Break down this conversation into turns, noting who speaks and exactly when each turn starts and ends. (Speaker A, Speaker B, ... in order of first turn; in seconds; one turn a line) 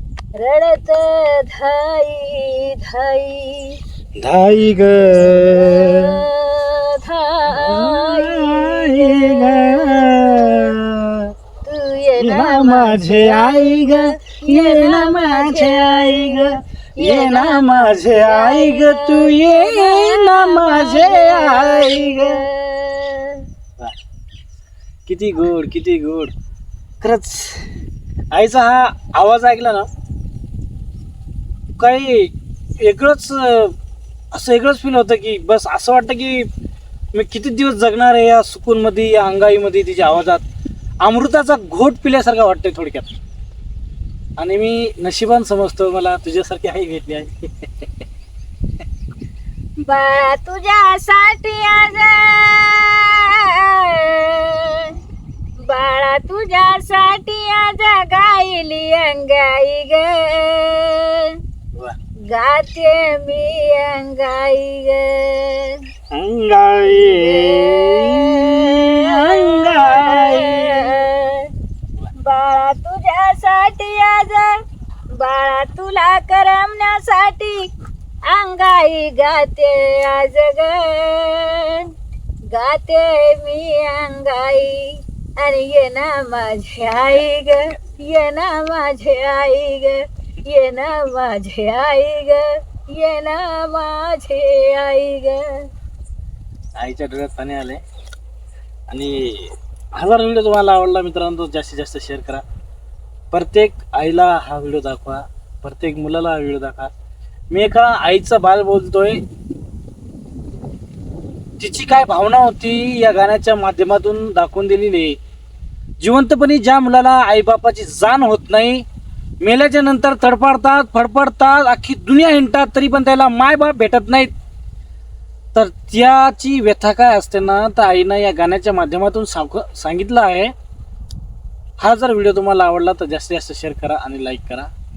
Speaker A: 0.4-3.8
Speaker B: 4.2-6.2
Speaker A: 5.3-10.8
Speaker B: 7.5-11.3
Speaker A: 11.7-23.4
Speaker B: 12.2-22.4
Speaker B: 25.1-26.3
Speaker B: 27.0-27.7
Speaker B: 28.3-29.9
Speaker B: 31.8-33.7
Speaker B: 34.3-36.5
Speaker B: 37.1-40.4
Speaker B: 41.0-43.2
Speaker B: 44.4-47.9
Speaker A: 49.9-55.0
Speaker A: 55.7-61.4
Speaker A: 62.3-65.8
Speaker B: 66.1-71.0
Speaker A: 66.9-71.5
Speaker A: 72.2-74.5
Speaker A: 75.2-77.7
Speaker A: 78.3-81.9
Speaker A: 82.5-95.5
Speaker B: 96.8-97.8
Speaker B: 98.9-102.4
Speaker B: 103.3-106.9
Speaker B: 107.5-109.2
Speaker B: 111.6-115.2
Speaker B: 116.0-118.8
Speaker B: 119.4-124.3
Speaker B: 125.5-130.5
Speaker B: 131.8-134.7